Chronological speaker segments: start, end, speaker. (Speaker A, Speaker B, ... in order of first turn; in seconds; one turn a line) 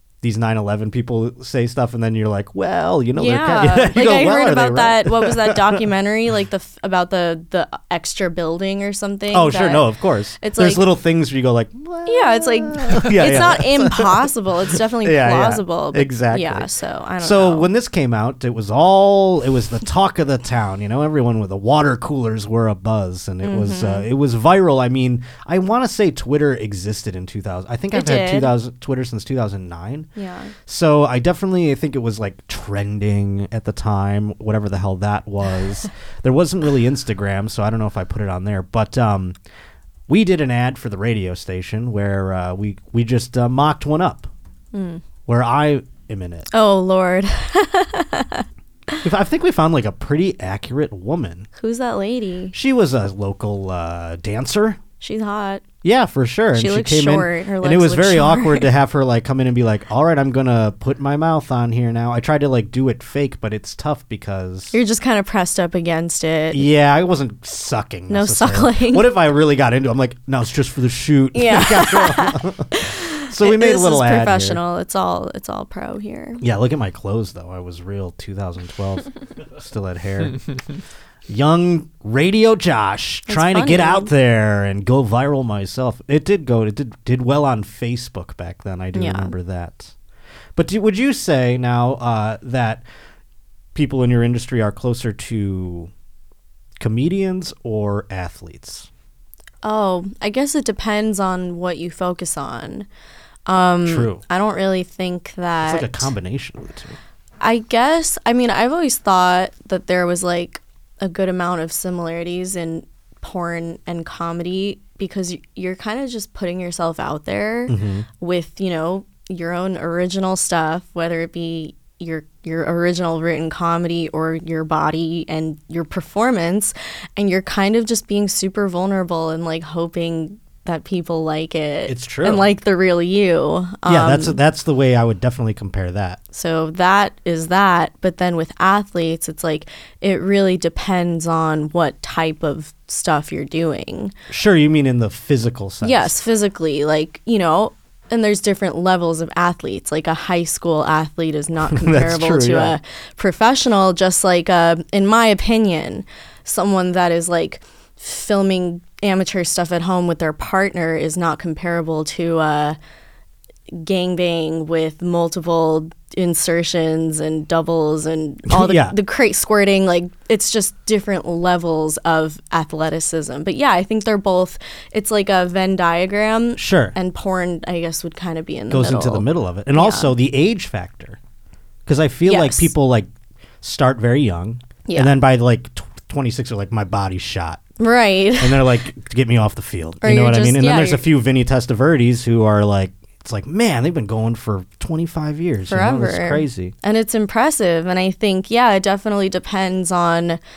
Speaker A: 0.2-5.8
Speaker B: 3.2-9.9
Speaker A: 9.3-30.1
Speaker B: 10.4-10.8
Speaker B: 12.1-17.7
Speaker B: 23.4-24.1
Speaker B: 27.9-28.5
Speaker B: 30.2-30.5
Speaker A: 30.7-39.4
Speaker A: 40.1-44.3
Speaker B: 44.7-45.0
Speaker A: 45.3-46.5
Speaker B: 46.5-49.0
Speaker A: 49.0-51.5
Speaker B: 51.6-52.5
Speaker A: 52.5-54.8
Speaker B: 55.0-55.6
Speaker A: 55.8-64.8
Speaker B: 56.5-58.7
Speaker B: 64.7-66.7
Speaker A: 66.5-74.6
Speaker B: 68.1-69.1
Speaker B: 71.3-76.4
Speaker A: 76.4-80.5
Speaker A: 81.3-89.9
Speaker B: 83.3-84.1
Speaker B: 88.9-89.3
Speaker A: 90.6-92.8
Speaker A: 93.8-95.9
Speaker A: 96.8-98.9
Speaker B: 99.6-102.9
Speaker B: 103.5-106.1
Speaker A: 103.8-104.2
Speaker A: 105.6-107.0
Speaker B: 107.4-134.4
Speaker A: 117.7-118.1
Speaker A: 131.9-132.5
Speaker A: 133.8-136.2
Speaker B: 136.3-144.1
Speaker A: 144.3-146.1
Speaker B: 145.8-162.8
Speaker A: 151.7-152.8
Speaker B: 163.7-180.1
Speaker A: 168.5-169.0
Speaker A: 176.6-177.0
Speaker A: 178.7-181.2
Speaker A: 181.9-183.1
Speaker B: 182.3-182.7
Speaker A: 183.6-187.6
Speaker B: 184.9-185.2
Speaker B: 187.8-188.7
Speaker A: 188.4-196.8
Speaker B: 190.0-191.1
Speaker B: 195.7-200.4